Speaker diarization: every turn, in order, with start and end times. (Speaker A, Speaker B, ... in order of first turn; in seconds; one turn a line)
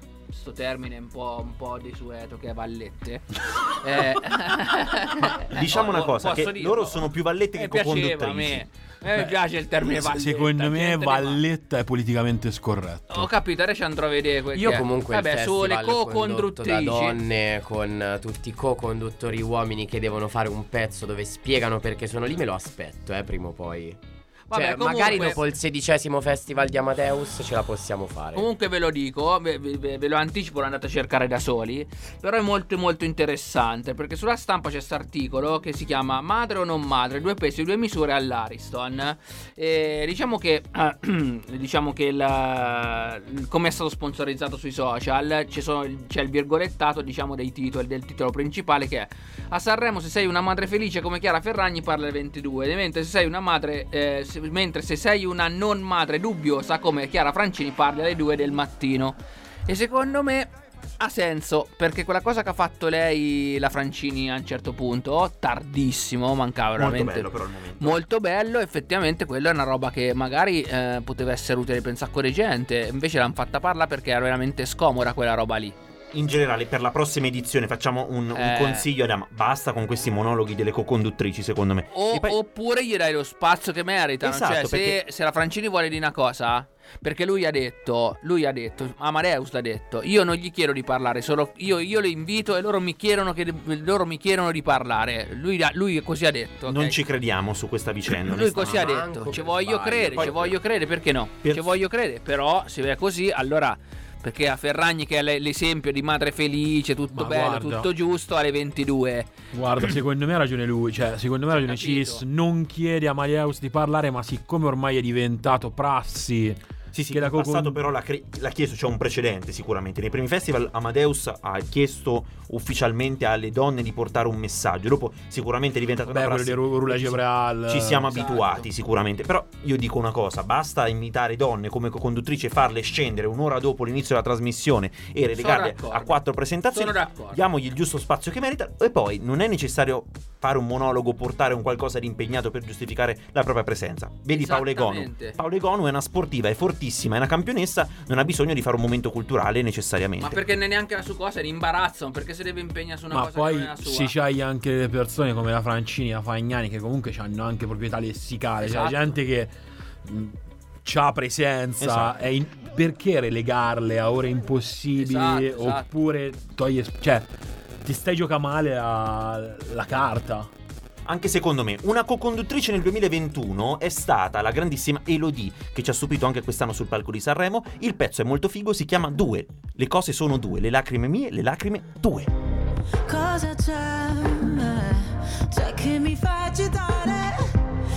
Speaker A: 0.3-11.4
Speaker B: 5.4-8.7
Speaker C: 9.8-13.3
Speaker A: 13.1-17.2
Speaker D: 14.5-24.0
Speaker A: 24.5-25.4
Speaker D: 24.5-28.5
Speaker A: 28.4-75.8
Speaker B: 66.8-68.0
Speaker B: 76.1-82.4
Speaker A: 78.3-78.9
Speaker A: 81.9-97.0
Speaker B: 84.2-85.0
Speaker B: 96.7-98.9
Speaker A: 98.2-109.3
Speaker D: 98.5-100.5
Speaker B: 100.1-100.6
Speaker B: 101.4-101.7
Speaker C: 107.1-107.9
Speaker C: 109.5-117.8
Speaker A: 111.7-112.2
Speaker B: 116.9-150.4
Speaker C: 126.1-128.2
Speaker A: 128.1-128.7
Speaker A: 135.3-137.4
Speaker A: 144.3-145.4
Speaker A: 150.2-154.1
Speaker C: 153.1-167.3
Speaker A: 158.6-159.2
Speaker B: 161.8-162.1
Speaker A: 165.0-165.9
Speaker C: 167.8-170.5
Speaker B: 171.1-182.3
Speaker E: 183.1-187.5